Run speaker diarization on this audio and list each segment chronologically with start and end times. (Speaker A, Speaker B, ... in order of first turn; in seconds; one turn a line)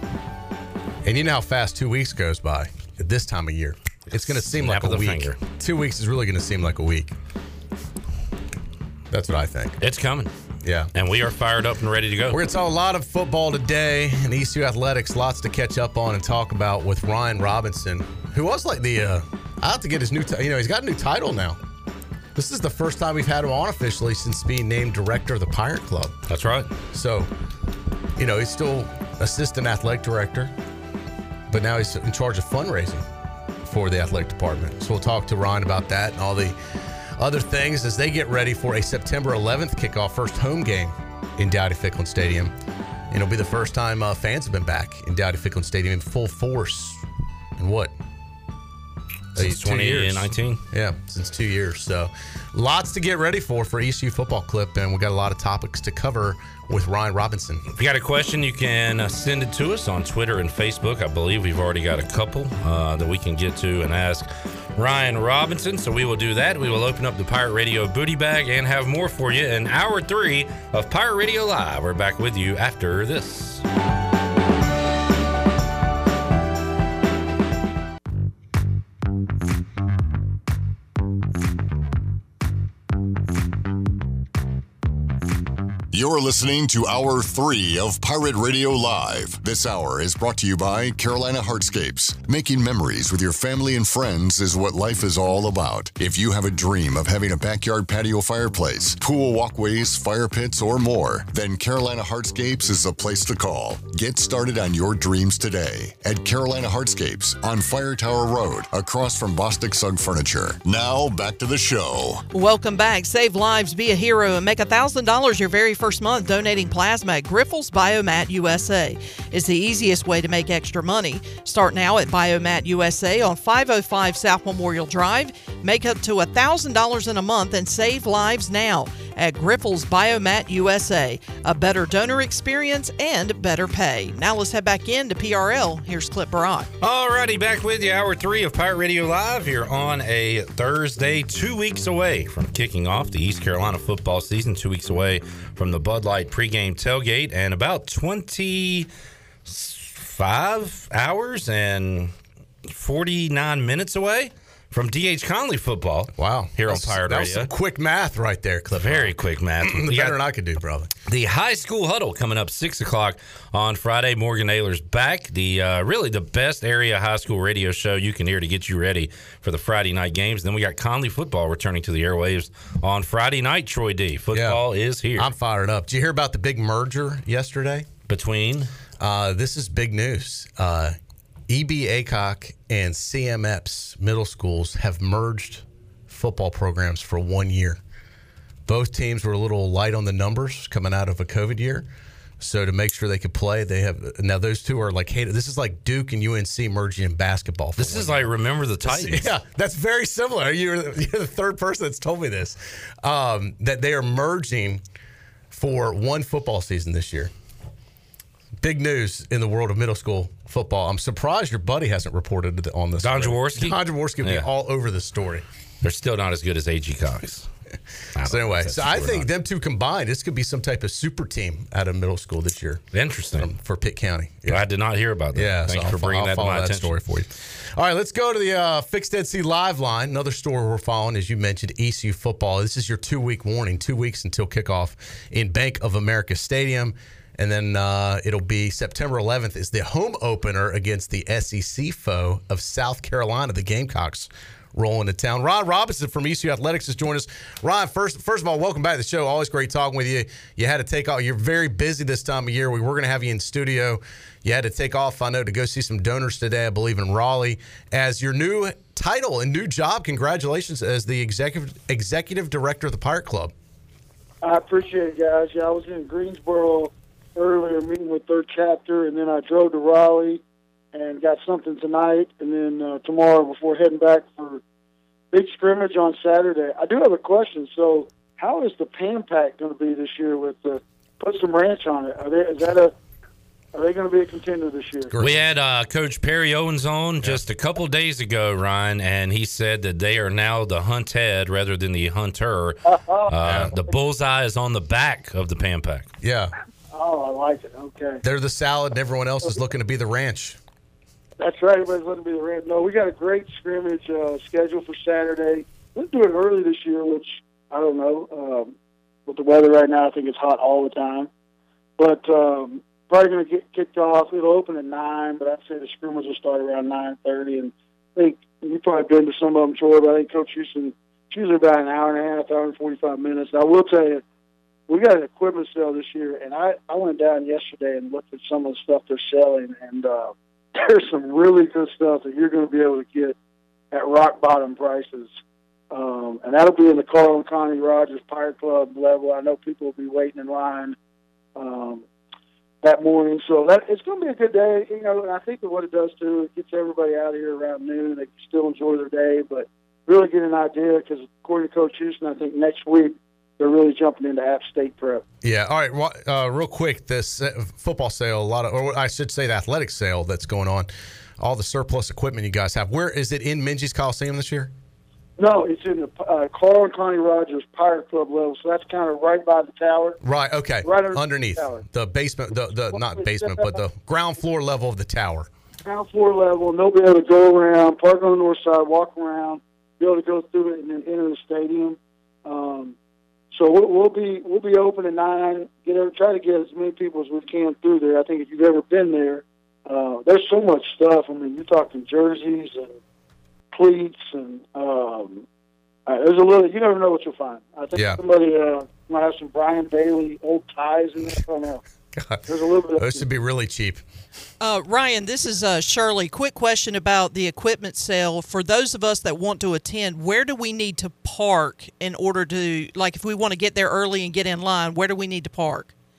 Speaker A: 1.0-7.1
Speaker B: 4.1-5.4
Speaker A: 9.1-9.8
Speaker B: 9.8-10.3
Speaker A: 10.6-10.9
Speaker B: 10.9-12.4
Speaker A: 12.3-21.6
Speaker A: 22.4-26.1
Speaker B: 26.3-26.7
Speaker A: 26.9-27.3
Speaker A: 28.2-30.5
Speaker A: 31.5-33.0
Speaker A: 33.6-36.6
Speaker A: 37.2-42.5
Speaker A: 43.1-47.0
Speaker A: 47.6-47.9
Speaker A: 49.4-57.6
Speaker B: 49.4-50.6
Speaker B: 57.7-73.6
Speaker C: 85.9-112.2
Speaker D: 112.3-136.7
Speaker B: 136.8-148.9
Speaker B: 149.5-152.1
Speaker B: 152.7-157.5
Speaker A: 156.2-160.9
Speaker B: 158.8-160.2
Speaker B: 161.1-175.3
Speaker A: 174.3-174.6
Speaker A: 175.2-177.9
Speaker B: 178.1-178.7
Speaker A: 179.0-181.0
Speaker A: 181.5-187.8
Speaker A: 188.7-191.9
Speaker A: 192.4-198.3
Speaker B: 197.8-199.3
Speaker A: 198.8-204.8
Speaker A: 205.5-207.3
Speaker A: 208.6-215.4
Speaker B: 213.0-214.5
Speaker B: 215.8-217.5
Speaker B: 218.2-219.3
Speaker A: 218.2-222.8
Speaker B: 222.9-223.5
Speaker A: 223.3-224.6
Speaker B: 224.5-226.9
Speaker A: 225.3-263.5
Speaker E: 264.4-270.4
Speaker E: 270.9-274.6
Speaker E: 275.3-282.9
Speaker E: 283.7-285.2
Speaker A: 285.1-285.4
Speaker B: 285.2-296.1
Speaker E: 292.9-293.9
Speaker A: 293.4-293.7
Speaker A: 296.2-296.5
Speaker E: 296.9-298.2
Speaker A: 298.2-300.6
Speaker E: 301.4-308.7
Speaker E: 309.3-311.3
Speaker E: 312.0-324.2
Speaker E: 324.9-333.4
Speaker E: 333.9-335.3
Speaker E: 335.9-341.0
Speaker E: 341.6-342.1
Speaker E: 342.8-355.2
Speaker A: 355.4-364.7
Speaker E: 365.4-370.2
Speaker A: 370.2-375.5
Speaker E: 370.9-371.9
Speaker E: 372.9-373.8
Speaker E: 375.9-382.9
Speaker E: 383.5-393.0
Speaker E: 393.7-395.4
Speaker E: 396.1-401.8
Speaker A: 397.9-398.2
Speaker A: 402.2-402.4
Speaker E: 402.5-403.3
Speaker A: 403.0-404.0
Speaker D: 404.6-415.9